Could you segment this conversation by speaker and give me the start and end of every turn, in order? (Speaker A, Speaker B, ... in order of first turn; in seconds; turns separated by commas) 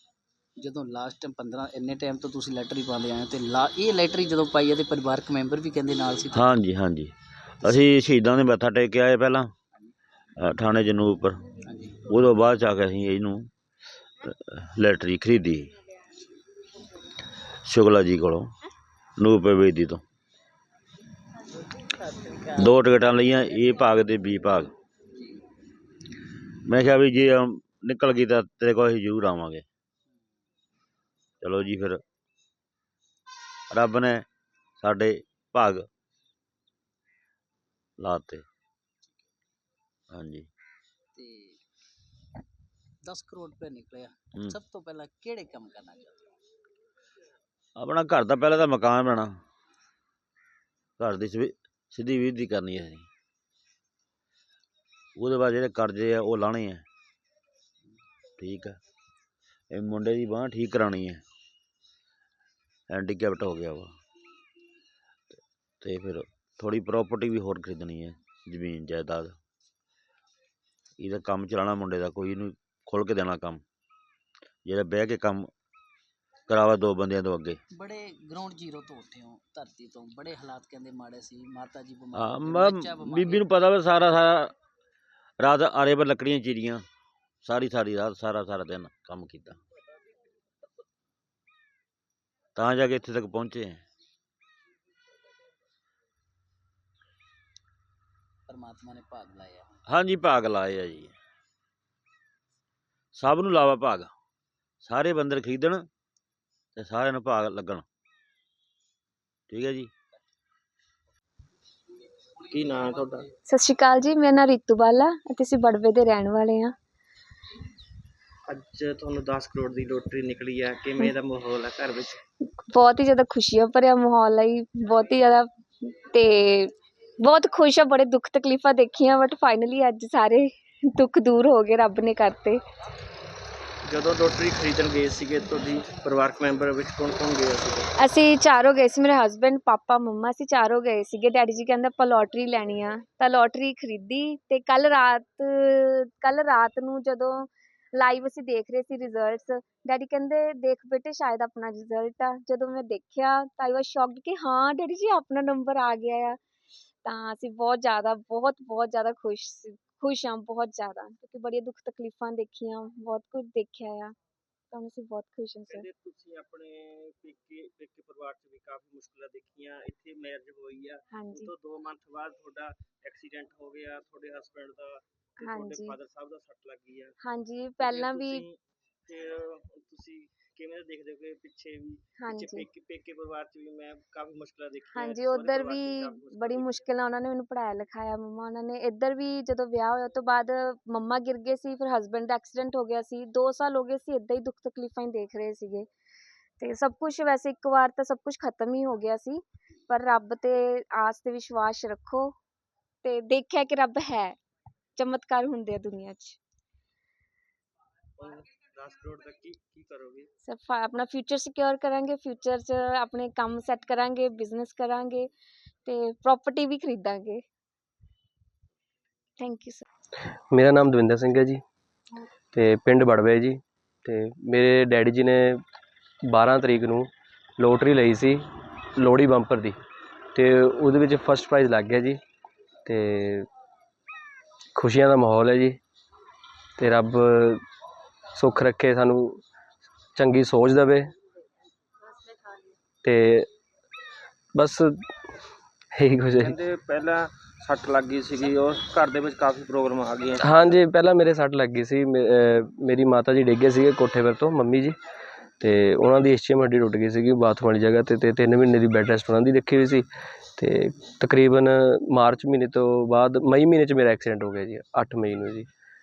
Speaker A: 0.6-6.5, Speaker B: 6.3-7.1, Speaker B: 7.6-9.5, Speaker B: 10.4-11.4, Speaker A: 11.7-12.1, Speaker B: 12.1-13.5, Speaker B: 14.2-15.7, Speaker B: 17.7-18.5, Speaker B: 19.2-20.0, Speaker B: 22.4-24.7, Speaker B: 26.7-29.6, Speaker B: 31.4-32.0, Speaker B: 33.7-34.2, Speaker B: 34.8-35.9, Speaker B: 38.0-38.5, Speaker B: 40.1-40.5, Speaker A: 41.1-41.6, Speaker A: 43.0-46.3, Speaker B: 47.8-49.4, Speaker B: 51.0-53.1, Speaker B: 55.2-56.8, Speaker B: 58.4-58.8, Speaker B: 59.7-61.2, Speaker B: 62.9-63.9, Speaker B: 65.3-69.4, Speaker B: 71.0-73.6, Speaker B: 74.7-75.5, Speaker B: 76.5-77.6, Speaker A: 77.7-83.4, Speaker B: 82.1-84.5, Speaker B: 85.4-86.8, Speaker B: 87.4-89.6, Speaker B: 92.6-93.8, Speaker A: 98.5-99.7, Speaker B: 99.9-101.2, Speaker B: 103.2-104.1, Speaker B: 104.8-105.9, Speaker B: 106.8-107.8, Speaker B: 109.5-109.9, Speaker C: 112.5-113.3, Speaker D: 113.5-116.7, Speaker C: 118.5-122.2, Speaker D: 122.7-132.6, Speaker C: 133.9-137.9, Speaker D: 138.0-156.4, Speaker D: 157.1-164.2, Speaker D: 164.7-165.9, Speaker C: 165.7-177.2, Speaker D: 171.1-171.5, Speaker D: 175.4-176.0, Speaker D: 177.2-178.4, Speaker C: 177.8-186.9, Speaker D: 182.2-182.7, Speaker D: 184.9-195.9, Speaker D: 196.6-202.3, Speaker D: 203.0-204.4, Speaker D: 205.0-206.4, Speaker C: 208.2-210.3, Speaker D: 210.4-215.3, Speaker D: 215.8-217.4, Speaker D: 219.4-219.9, Speaker E: 220.5-221.6, Speaker E: 222.5-225.6, Speaker E: 226.3-228.4, Speaker E: 229.0-229.8, Speaker E: 230.3-232.2, Speaker E: 232.8-233.5, Speaker E: 234.8-235.8, Speaker E: 236.8-237.6, Speaker E: 238.3-239.4, Speaker E: 240.2-241.1, Speaker E: 243.0-243.5, Speaker E: 244.6-245.0, Speaker E: 246.0-246.6, Speaker C: 246.4-250.4, Speaker E: 250.4-255.0, Speaker E: 255.6-260.1, Speaker E: 260.6-265.7